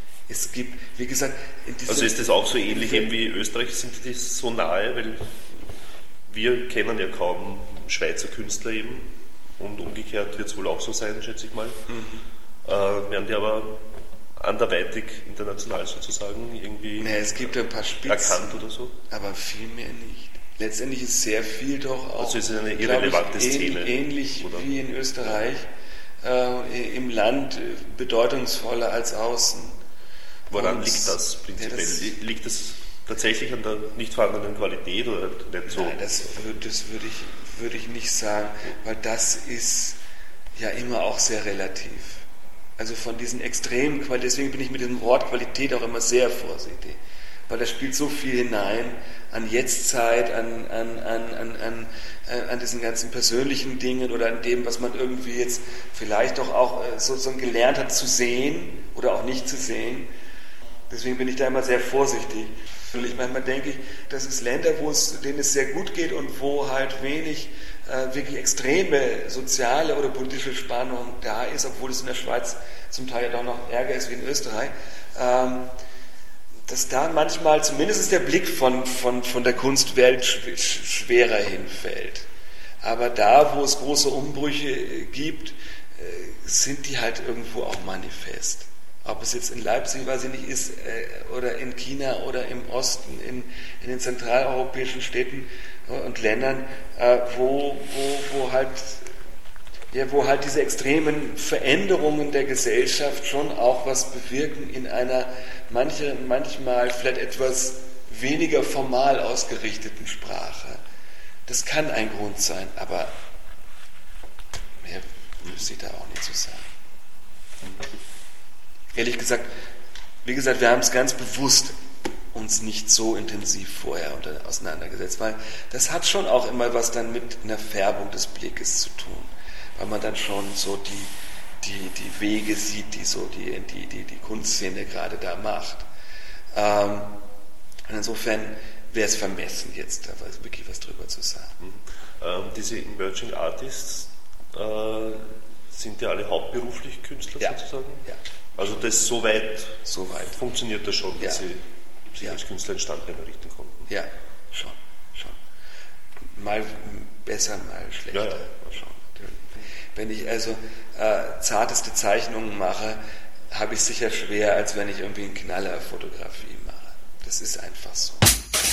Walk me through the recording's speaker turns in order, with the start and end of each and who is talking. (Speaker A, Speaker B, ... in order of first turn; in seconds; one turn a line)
Speaker A: 0.3-3.1
Speaker B: 1.9-5.3
Speaker B: 6.3-9.1
Speaker B: 9.6-11.8
Speaker A: 11.9-12.2
Speaker B: 12.6-13.8
Speaker B: 14.4-17.5
Speaker A: 17.0-25.6
Speaker B: 18.0-18.9
Speaker B: 22.2-24.7
Speaker A: 26.2-29.7
Speaker A: 30.5-32.1
Speaker B: 30.5-36.2
Speaker A: 35.7-40.0
Speaker A: 40.5-42.2
Speaker A: 42.8-60.1
Speaker A: 60.9-75.7
Speaker A: 76.7-82.2
Speaker A: 82.8-99.0
Speaker A: 99.9-110.8
Speaker A: 111.5-113.1
Speaker A: 114.8-116.7
Speaker A: 118.9-119.5
Speaker A: 120.2-121.7
Speaker A: 122.3-135.8
Speaker A: 136.5-137.2
Speaker A: 137.9-141.6
Speaker B: 141.6-153.9
Speaker A: 147.4-148.2
Speaker A: 149.8-150.4
Speaker A: 151.2-151.4
Speaker A: 153.9-155.4
Speaker A: 156.3-168.3
Speaker B: 158.1-158.5